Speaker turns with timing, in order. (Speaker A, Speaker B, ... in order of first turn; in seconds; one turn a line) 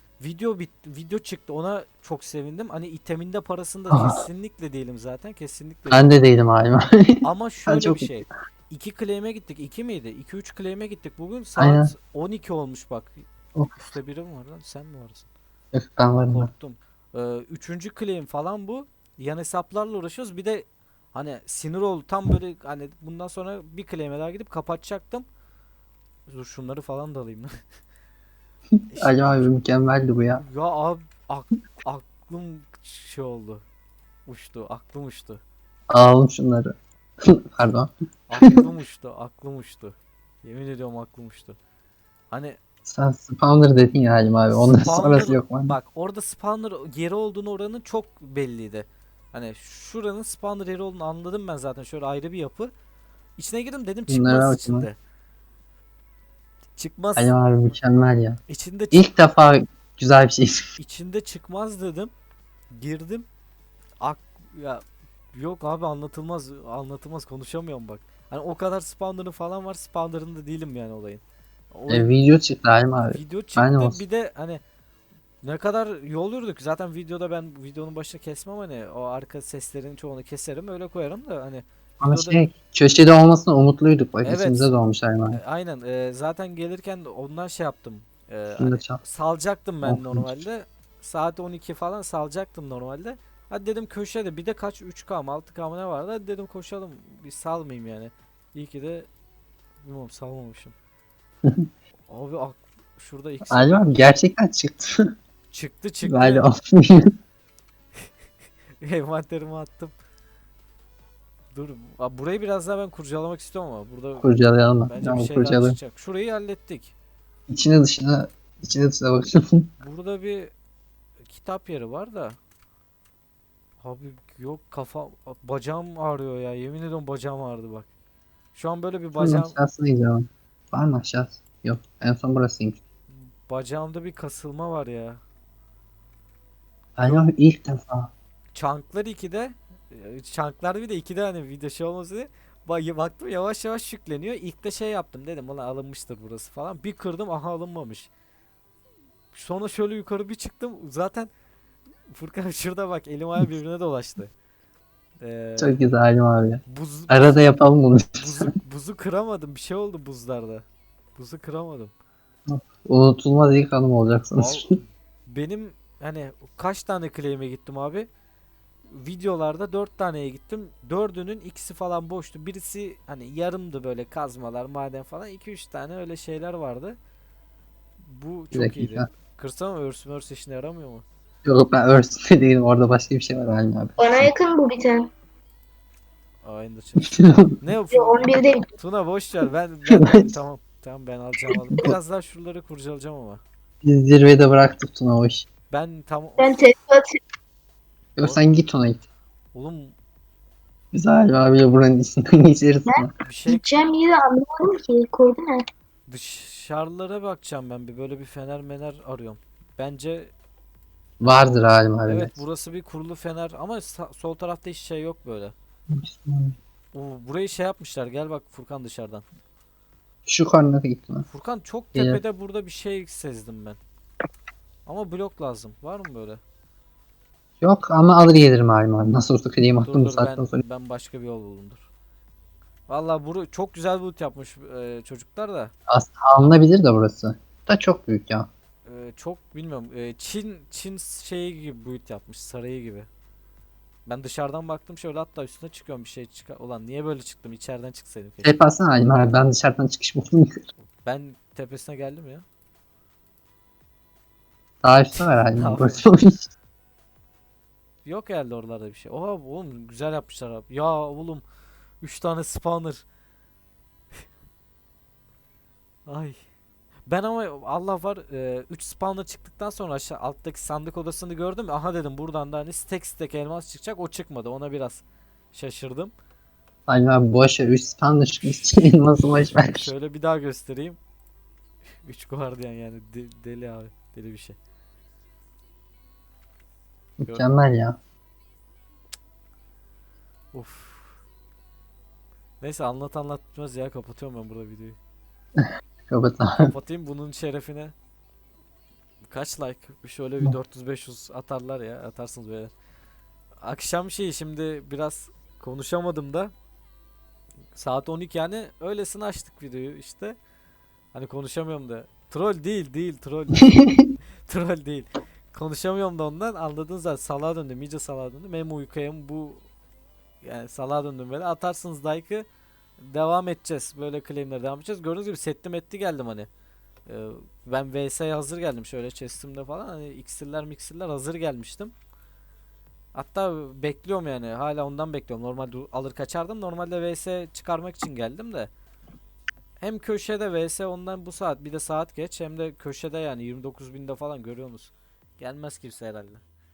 Speaker A: 0.2-6.1
Speaker B: 3.9-4.2
Speaker B: 5.9-8.3
Speaker A: 7.2-13.2
Speaker B: 11.6-11.9
Speaker A: 13.8-15.3
Speaker B: 15.7-16.5
Speaker A: 16.3-25.2
Speaker A: 26.3-27.5
Speaker B: 28.8-30.4
Speaker A: 28.9-29.5
Speaker A: 30.4-33.6
Speaker A: 34.2-35.4
Speaker B: 35.9-37.9
Speaker A: 38.3-41.6
Speaker B: 38.4-38.7
Speaker A: 42.3-42.6
Speaker B: 42.9-45.8
Speaker A: 44.5-52.7
Speaker A: 53.4-55.0
Speaker B: 54.1-54.9
Speaker A: 56.8-57.3
Speaker B: 57.1-58.4
Speaker A: 58.5-59.1
Speaker B: 58.9-60.7
Speaker A: 60.8-62.1
Speaker A: 62.7-63.3
Speaker A: 64.0-72.1
Speaker B: 71.9-74.0
Speaker A: 73.1-74.6
Speaker A: 75.4-82.4
Speaker B: 82.0-85.4
Speaker A: 84.2-84.8
Speaker A: 85.3-99.1
Speaker B: 88.5-89.0
Speaker B: 89.8-90.4
Speaker A: 99.8-100.7
Speaker A: 102.1-103.8
Speaker B: 103.5-105.1
Speaker A: 105.5-106.5
Speaker B: 106.0-107.1
Speaker A: 108.8-109.9
Speaker A: 111.5-114.3
Speaker B: 114.2-115.8
Speaker A: 114.8-116.9
Speaker B: 117.5-119.7
Speaker A: 119.8-120.5
Speaker A: 121.3-122.4
Speaker A: 123.8-127.9
Speaker A: 128.5-129.5
Speaker B: 129.2-132.8
Speaker A: 133.1-135.2
Speaker B: 137.0-138.1
Speaker A: 138.5-148.1
Speaker A: 149.3-151.3
Speaker A: 152.1-154.3
Speaker A: 155.2-155.8
Speaker B: 155.6-158.5
Speaker A: 156.7-157.5
Speaker A: 158.2-161.9
Speaker B: 162.5-164.7
Speaker A: 164.4-168.1
Speaker A: 168.9-177.0
Speaker A: 178.0-181.0
Speaker B: 178.5-179.1
Speaker B: 181.4-184.3
Speaker C: 184.0-185.1
Speaker A: 186.4-193.4
Speaker B: 187.0-187.5
Speaker C: 187.9-188.7
Speaker B: 189.9-190.3
Speaker B: 191.5-191.9
Speaker B: 193.8-195.4
Speaker A: 195.7-196.6
Speaker C: 196.4-197.1
Speaker B: 198.2-199.0
Speaker A: 198.2-198.5
Speaker A: 199.5-199.9
Speaker B: 200.9-203.1
Speaker C: 202.9-205.6
Speaker A: 203.2-203.7
Speaker A: 206.1-210.3
Speaker B: 211.2-212.3
Speaker A: 211.2-211.5
Speaker A: 212.1-215.5
Speaker B: 215.9-216.5
Speaker A: 216.9-219.2
Speaker B: 220.2-221.2
Speaker A: 221.3-223.8
Speaker B: 221.9-222.2
Speaker A: 224.8-226.4
Speaker B: 227.6-230.6
Speaker A: 229.8-231.9
Speaker A: 232.9-235.7
Speaker B: 235.9-238.5
Speaker A: 238.8-243.1
Speaker A: 244.1-248.5
Speaker B: 248.4-250.6
Speaker A: 251.0-252.4
Speaker B: 254.8-256.5
Speaker A: 255.2-256.0
Speaker A: 258.0-261.4
Speaker A: 262.0-263.0
Speaker A: 266.1-266.4
Speaker A: 267.1-276.1
Speaker B: 276.9-279.9
Speaker A: 278.4-281.0
Speaker A: 282.0-284.6
Speaker B: 287.2-288.0
Speaker A: 290.5-291.2
Speaker A: 292.6-295.0
Speaker B: 295.6-296.7
Speaker A: 296.6-297.9
Speaker A: 299.3-302.7
Speaker A: 303.6-306.5
Speaker A: 307.7-310.4
Speaker A: 311.1-313.9
Speaker A: 314.5-319.6
Speaker A: 320.4-322.4
Speaker A: 323.0-326.5
Speaker A: 327.1-331.9
Speaker A: 333.1-338.7
Speaker A: 339.8-346.4